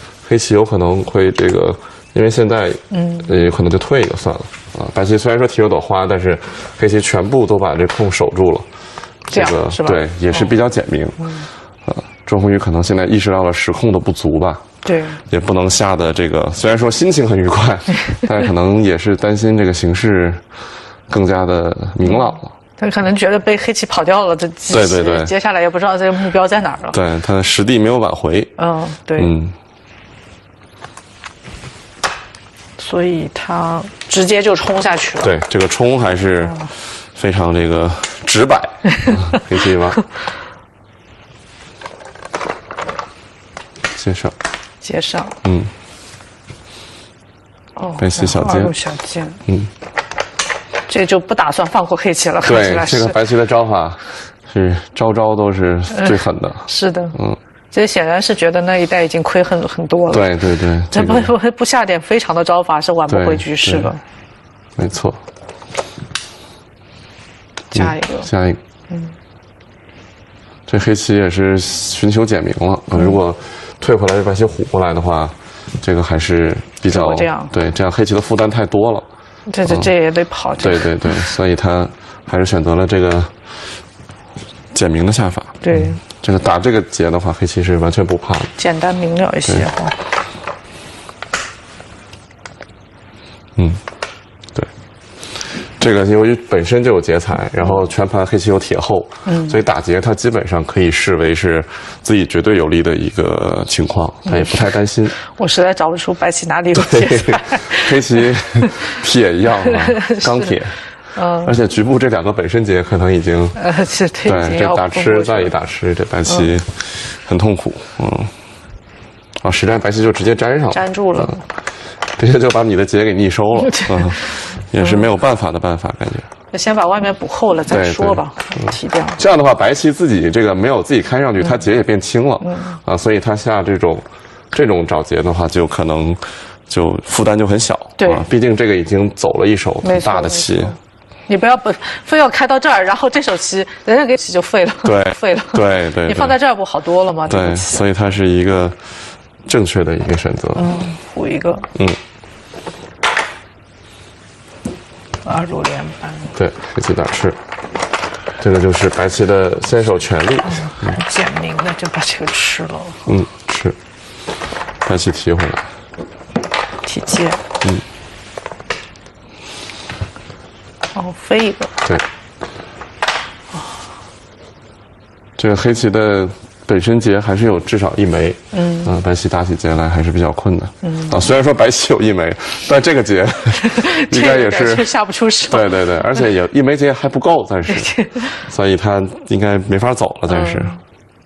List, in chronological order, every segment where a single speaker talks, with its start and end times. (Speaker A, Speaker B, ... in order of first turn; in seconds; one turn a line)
Speaker A: 0.2-8.7
Speaker B: 2.9-3.3
Speaker B: 9.3-10.5
Speaker A: 9.3-11.2
Speaker B: 11.2-11.5
Speaker A: 11.8-14.6
Speaker B: 14.8-15.2
Speaker A: 15.3-20.4
Speaker A: 21.1-22.5
Speaker B: 22.0-27.0
Speaker A: 24.7-25.3
Speaker A: 26.9-28.5
Speaker B: 28.6-29.3
Speaker A: 29.2-29.5
Speaker B: 32.8-35.3
Speaker A: 35.2-36.6
Speaker B: 36.4-36.7
Speaker A: 37.1-40.0
Speaker B: 38.9-39.4
Speaker A: 43.9-44.4
Speaker B: 44.8-45.3
Speaker A: 45.4-45.7
Speaker B: 47.8-49.4
Speaker A: 48.0-48.7
Speaker B: 50.9-53.1
Speaker A: 52.4-57.4
Speaker B: 55.9-57.2
Speaker B: 57.7-60.3
Speaker A: 60.1-61.3
Speaker B: 60.9-64.0
Speaker A: 63.1-63.9
Speaker A: 64.8-65.2
Speaker B: 67.7-68.3
Speaker A: 67.7-68.6
Speaker A: 70.7-79.1
Speaker B: 76.9-77.5
Speaker B: 79.5-81.2
Speaker A: 80.6-83.3
Speaker A: 84.7-88.5
Speaker B: 85.6-86.0
Speaker B: 88.6-89.9
Speaker A: 93.5-93.8
Speaker A: 95.8-105.1
Speaker B: 99.2-99.6
Speaker B: 104.2-108.9
Speaker A: 106.7-110.7
Speaker B: 109.6-110.5
Speaker B: 111.1-111.5
Speaker A: 111.4-113.5
Speaker B: 113.5-115.5
Speaker A: 114.2-118.3
Speaker A: 119.4-121.3
Speaker B: 120.7-121.4
Speaker A: 122.2-126.3
Speaker B: 123.6-125.0
Speaker B: 126.5-129.2
Speaker A: 127.7-140.7
Speaker B: 132.4-132.8
Speaker B: 138.0-138.2
Speaker B: 139.8-140.7
Speaker B: 141.3-147.8
Speaker A: 144.8-146.4
Speaker A: 147.3-148.8
Speaker A: 149.4-150.7
Speaker B: 150.5-151.7
Speaker B: 155.2-156.3
Speaker A: 156.3-157.4
Speaker A: 158.4-161.0
Speaker B: 160.4-163.1
Speaker A: 163.1-163.8
Speaker A: 164.8-165.7
Speaker B: 166.8-167.4
Speaker B: 170.9-171.8
Speaker A: 175.4-184.9
Speaker B: 178.5-178.9
Speaker B: 180.8-181.2
Speaker B: 183.6-185.8
Speaker A: 185.4-187.9
Speaker B: 187.7-188.4
Speaker A: 188.4-190.8
Speaker B: 190.3-190.8